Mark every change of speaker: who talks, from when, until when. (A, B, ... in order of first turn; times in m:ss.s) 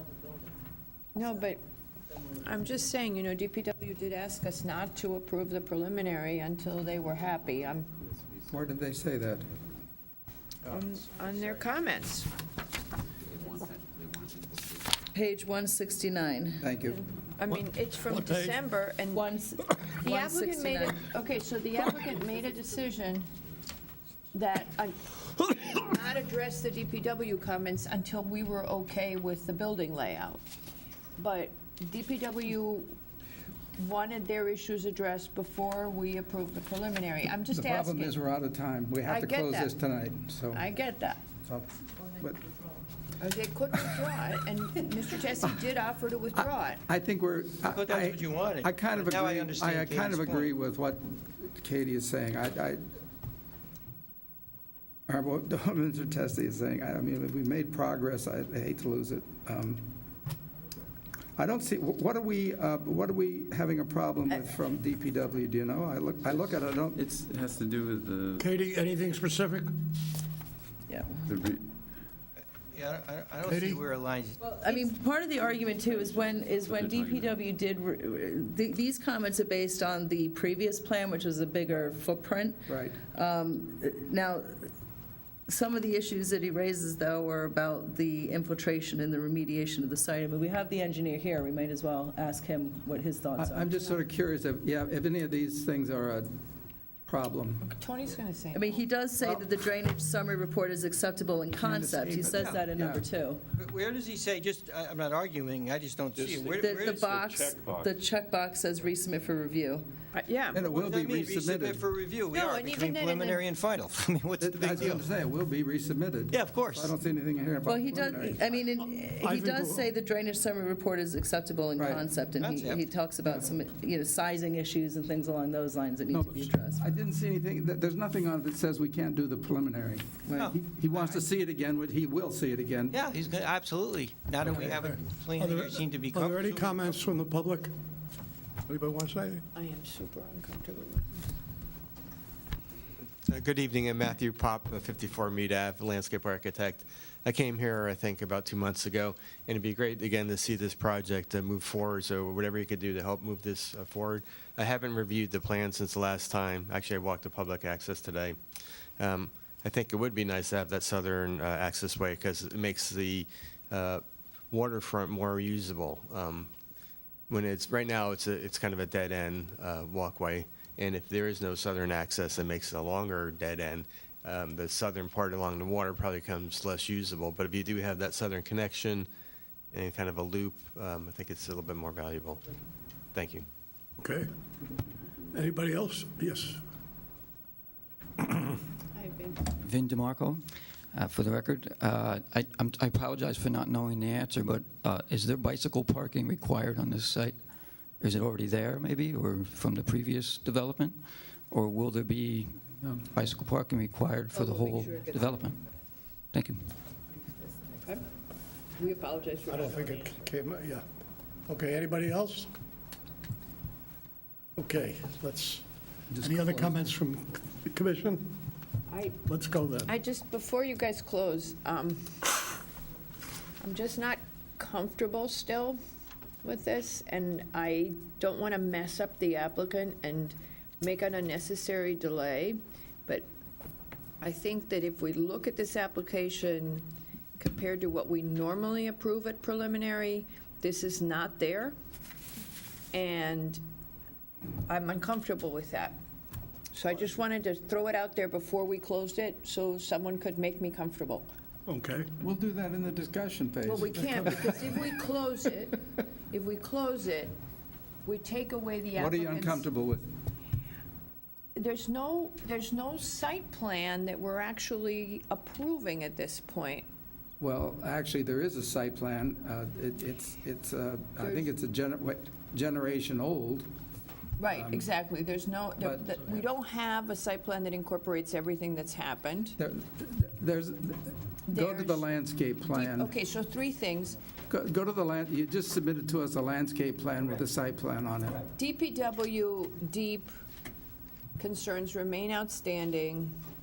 0:01.1-0:01.6 A
0:02.4-0:07.9 A
0:08.5-0:09.5 B
0:10.7-0:12.3 A
0:15.1-0:16.6 C
0:16.6-0:17.0 B
0:17.4-0:19.3 A
0:18.1-0:18.5 D
0:19.1-0:21.0 C
0:20.0-0:23.3 A
0:24.3-0:30.4 A
0:31.2-0:32.9 A
0:33.8-0:38.2 A
0:37.5-0:40.6 B
0:39.0-0:39.7 A
0:40.5-0:41.2 A
0:43.2-0:46.8 A
0:46.4-0:52.8 B
0:47.6-0:50.5 E
0:55.1-0:59.9 B
1:01.4-1:07.0 B
1:07.0-1:08.5 F
1:08.4-1:09.7 D
1:10.9-1:11.3 C
1:11.3-1:11.6 F
1:12.7-1:14.6 E
1:13.4-1:13.8 D
1:14.4-1:24.7 C
1:15.9-1:17.3 F
1:22.7-1:23.0 B
1:25.5-1:34.0 C
1:33.4-1:36.3 B
1:37.1-1:37.6 B
1:37.6-1:38.8 A
1:38.5-1:43.4 C
1:41.6-1:43.0 B
1:42.4-1:42.7 E
1:43.6-1:47.1 E
1:46.2-1:48.0 F
1:46.6-1:49.8 C
1:50.1-1:50.6 A
1:50.5-1:51.8 B
1:50.5-1:55.0 E
1:52.3-1:53.4 A
1:54.4-1:58.4 B
1:56.3-1:56.9 E
1:57.6-2:06.8 C
1:59.2-1:59.8 D
2:01.8-2:02.1 B
2:02.4-2:02.9 E
2:06.1-2:13.0 B
2:10.3-2:11.2 E
2:12.9-2:17.0 E
2:14.6-2:17.7 D
2:18.7-2:19.4 D
2:19.5-2:21.2 A
2:23.3-2:38.4 G
2:39.0-2:46.5 G
2:47.3-2:59.1 G
2:59.7-3:02.4 G
3:03.1-3:03.4 G
3:04.0-3:04.3 D
3:05.3-3:06.6 D
3:09.0-3:09.4 A
3:09.5-3:17.4 H
3:18.0-3:21.0 H
3:21.5-3:25.6 H
3:24.3-3:25.3 A
3:26.3-3:26.6 H
3:28.8-3:30.2 A
3:29.5-3:30.8 D
3:31.5-3:32.5 D
3:34.6-3:35.6 D
3:36.1-3:36.8 B
3:36.2-3:38.3 D
3:38.9-3:39.2 A
3:39.3-3:39.9 D
3:39.8-3:42.3 A
3:43.6-3:45.8 A
3:46.4-3:53.3 A
3:54.2-3:56.9 A
3:57.4-4:01.7 A
4:02.9-4:03.6 A
4:04.7-4:06.0 A
4:06.7-4:11.3 A
4:11.7-4:12.1 D
4:12.2-4:14.8 B
4:13.6-4:17.3 A
4:18.0-4:19.7 A
4:19.0-4:20.1 B
4:21.5-4:26.9 A
4:27.4-4:33.7 B
4:31.2-4:31.5 A
4:34.4-4:39.6 A
4:34.5-4:34.9 B
4:35.8-4:36.4 B
4:39.6-4:43.1 B
4:41.5-4:42.0 A
4:42.7-4:44.2 A
4:44.5-4:48.4 B
4:48.6-4:50.3 A
4:51.4-4:53.3 A